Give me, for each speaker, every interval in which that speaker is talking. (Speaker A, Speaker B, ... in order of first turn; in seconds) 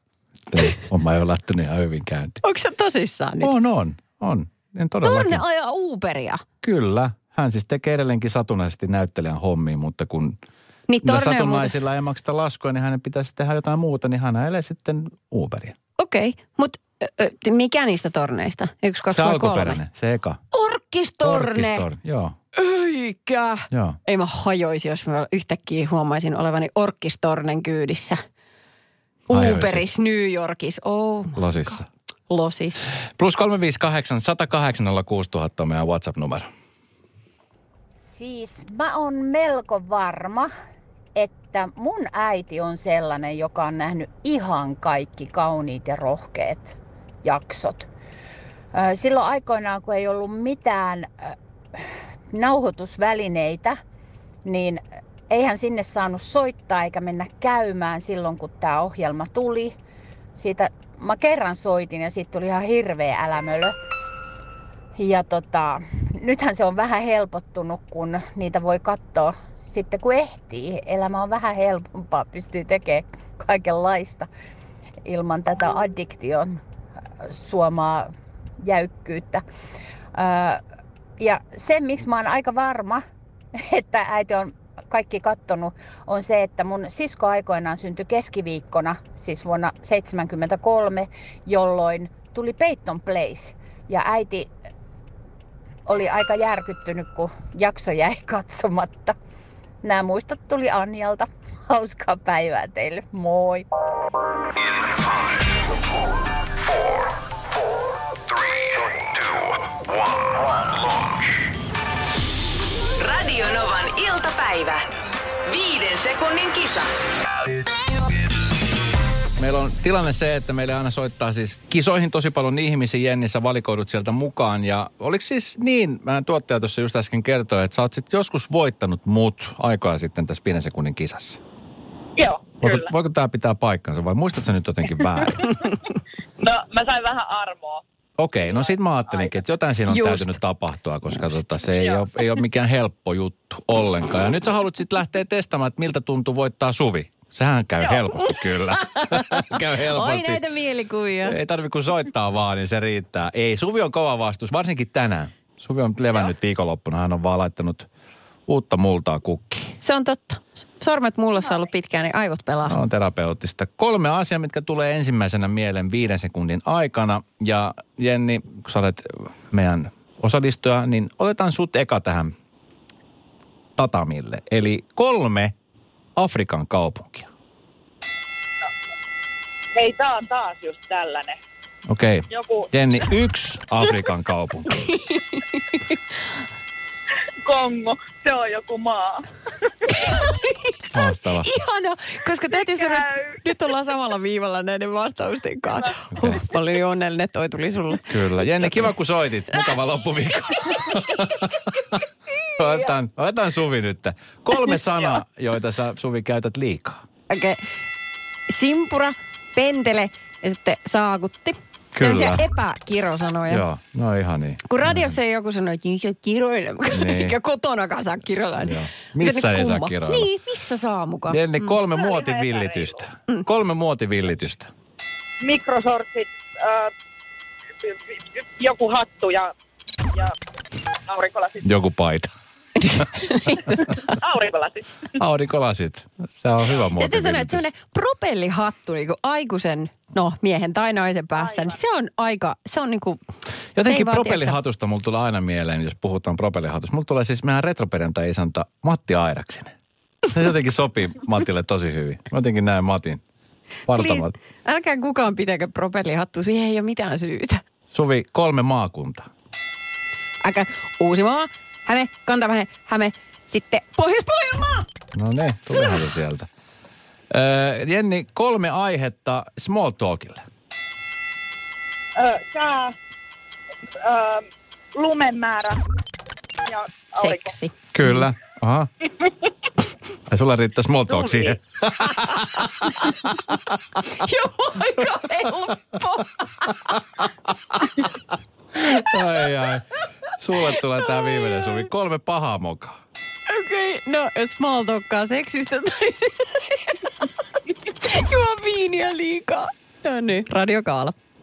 Speaker A: 0.5-2.4, 3.4-5.4, 6.6-10.4, 11.0-15.8, 19.1-20.4, 21.2-22.4, 23.7-24.0, 29.3-29.9, 31.4-31.9, 33.2-36.5, 119.4-131.4, 132.6-135.6, 138.2-150.4, 151.2-157.9, 158.5-159.8, 162.7-172.3, 173.8-175.5, 176.2-177.3, 181.9-184.9, 190.9-191.5, 196.1-196.4, 198.1-202.0, 202.6-207.0, 211.9-212.4, 213.5-215.1, 216.9-217.3, 218.6-220.3, 221.3-224.7, 231.6-232.3, 235.1-237.6, 243.7-249.7, 250.3-253.2, 253.9-254.3, 257.9-259.3, 265.1-266.5, 267.3-270.4, 277.9-278.9, 280.3-283.8, 287.7-288.0, 288.7-293.0
Speaker B: 2.4-3.5, 5.0-6.4, 10.9-11.7, 16.0-19.8, 20.5-21.9, 22.5-28.2, 29.3-31.4, 32.3-32.8, 139.9-140.3, 148.7-151.4, 159.8-162.8, 184.9-185.8, 189.9-198.1, 207.3-207.6, 208.5-213.7, 214.7-221.7, 232.8-233.7, 237.0-243.2, 243.8-244.6, 253.9-257.6, 260.4-264.9, 277.2-278.2, 284.0-287.0, 291.3-291.7, 293.5-297.3, 297.9-301.1
Speaker C: 38.0-40.5, 41.1-47.9, 48.7-53.8, 54.4-59.7, 60.3-63.7, 65.0-74.3, 75.0-76.6, 77.2-79.4, 80.1-80.6, 81.2-83.0, 83.5-94.5, 95.8-99.2, 99.8-103.7
Speaker D: 113.0-114.8, 115.4-116.9
Speaker E: 132.2-132.9, 136.4-137.8, 138.5-139.3, 141.8-142.1, 179.7-181.4, 182.3-182.7, 187.4-190.1, 192.7-193.3, 221.9-223.0, 225.4-226.9, 227.8-229.5, 231.1-231.7, 233.5-234.9, 241.3-241.8, 272.1-272.9, 274.0-275.8, 276.7-277.6, 281.2-281.5